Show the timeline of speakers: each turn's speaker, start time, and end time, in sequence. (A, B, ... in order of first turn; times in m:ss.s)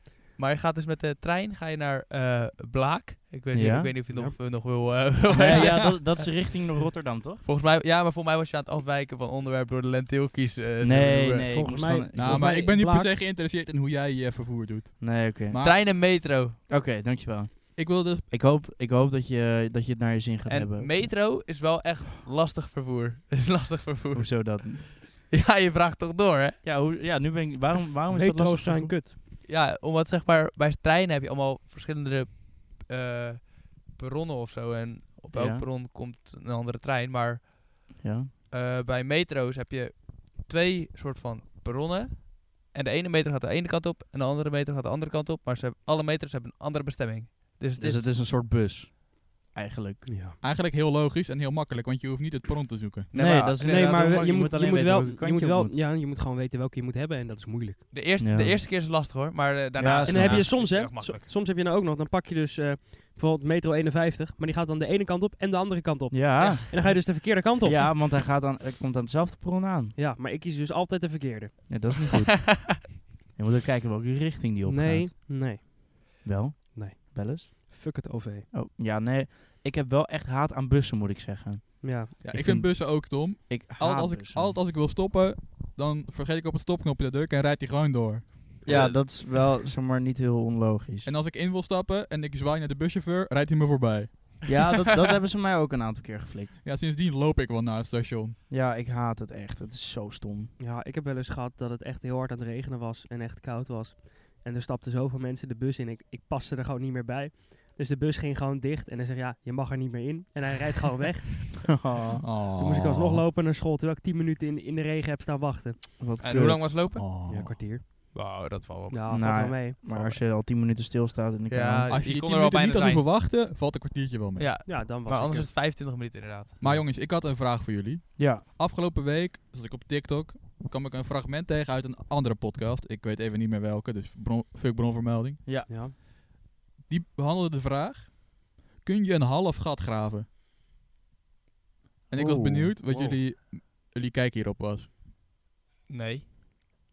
0:00.4-0:06.3 A
0:03.5-0:03.9 B
0:04.1-0:04.4 C
0:05.3-0:07.4 B
0:07.4-0:11.6 A
0:10.8-0:12.5 B
0:11.5-0:13.1 C
0:12.1-0:15.8 D
0:15.0-0:16.0 B
0:15.6-0:16.6 A
0:16.7-0:21.0 B
0:17.8-0:18.2 D
0:20.5-0:26.6 A
0:24.1-0:25.0 B
0:26.6-0:29.0 B
0:28.1-0:29.2 C
0:29.4-0:37.9 A
0:35.3-0:35.7 B
0:38.0-0:38.3 B
0:38.5-0:48.1 A
0:47.8-0:50.1 B
0:50.1-0:50.4 C
0:50.4-0:53.1 D
0:53.1-0:53.6 A
0:53.1-0:55.8 B
0:53.6-0:57.9 C
0:57.9-1:01.3 A
0:58.2-0:58.6 B
0:59.8-1:00.6 B
1:00.1-1:07.8 C
1:06.1-1:10.0 B
1:10.0-1:11.9 C
1:11.7-1:12.8 B
1:13.4-1:15.2 B
1:14.6-1:15.7 C
1:16.2-1:17.5 B
1:16.7-1:18.5 C
1:18.5-1:24.6 B
1:21.8-1:22.1 C
1:22.2-1:28.8 D
1:28.6-1:31.1 B
1:31.0-1:34.6 D
1:34.5-1:36.6 B
1:36.6-1:38.4 D
1:38.5-1:40.5 B
1:40.6-1:51.8 C
1:51.7-1:52.2 B
1:52.2-1:53.2 D
1:52.6-1:55.8 C
1:56.0-1:56.8 B
1:56.2-1:57.0 A
1:56.9-1:57.6 D
1:57.2-1:58.2 C
1:58.1-1:59.0 A
1:58.9-1:59.8 C
1:59.1-2:01.9 B
1:59.9-2:00.2 A
2:01.5-2:03.1 A
2:01.9-2:04.5 D
2:04.4-2:06.6 A
2:04.7-2:05.5 C
2:06.6-2:15.4 D
2:08.2-2:08.4 B
2:15.7-2:15.9 C
2:16.9-2:20.2 D
2:22.1-2:24.9 D
2:22.1-2:23.1 B
2:22.9-2:23.2 C
2:25.9-2:26.2 A